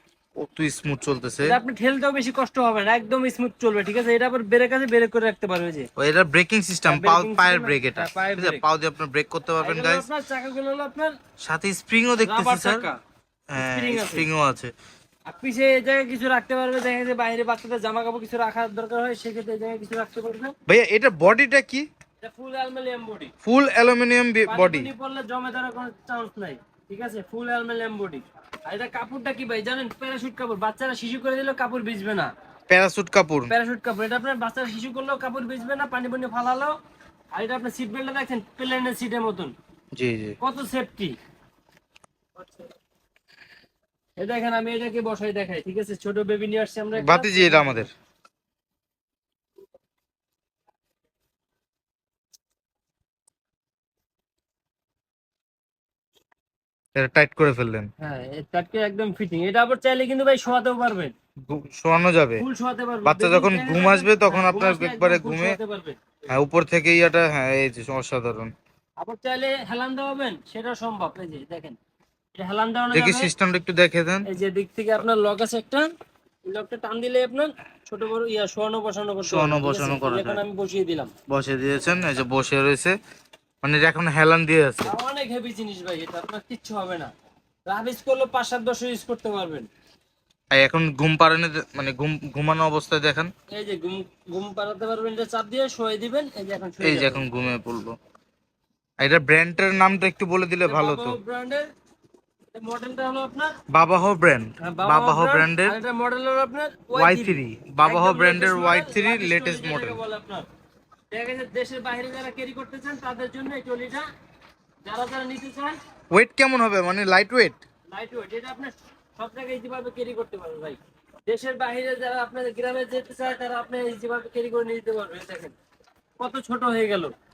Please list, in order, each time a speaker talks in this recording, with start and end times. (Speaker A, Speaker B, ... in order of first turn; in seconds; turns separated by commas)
Speaker A: 0.4-1.6, Speaker B: 1.4-5.9, Speaker A: 6.0-10.1, Speaker B: 6.9-8.6, Speaker B: 9.6-11.2, Speaker A: 11.4-12.9, Speaker B: 12.2-13.0, Speaker A: 13.5-14.7, Speaker B: 13.6-14.3, Speaker B: 15.3-20.5, Speaker A: 20.7-21.9, Speaker B: 22.2-23.3, Speaker A: 23.4-24.9, Speaker B: 24.5-32.3, Speaker A: 32.7-33.5, Speaker B: 33.5-36.8, Speaker B: 37.3-39.5, Speaker A: 40.0-40.4, Speaker B: 40.4-41.2, Speaker B: 44.2-47.9, Speaker A: 47.0-47.9, Speaker A: 57.0-57.9, Speaker B: 58.0-61.1, Speaker A: 61.5-62.4, Speaker B: 62.4-66.0, Speaker A: 63.0-65.6, Speaker A: 66.3-68.5, Speaker B: 69.0-71.8, Speaker B: 72.3-73.3, Speaker A: 72.9-74.3, Speaker B: 74.3-75.9, Speaker B: 76.5-81.1, Speaker A: 79.3-80.4, Speaker A: 81.3-83.0, Speaker A: 83.6-84.9, Speaker B: 84.9-87.1, Speaker B: 87.7-89.7, Speaker A: 90.5-93.3, Speaker B: 93.5-97.2, Speaker A: 96.8-98.0, Speaker A: 99.0-101.2, Speaker B: 100.7-101.7, Speaker B: 102.5-103.6, Speaker A: 103.7-105.8, Speaker B: 104.6-110.5, Speaker A: 106.9-110.0, Speaker B: 111.1-114.1, Speaker B: 114.9-115.8, Speaker A: 116.1-117.6, Speaker B: 117.9-125.5, Speaker B: 126.2-127.1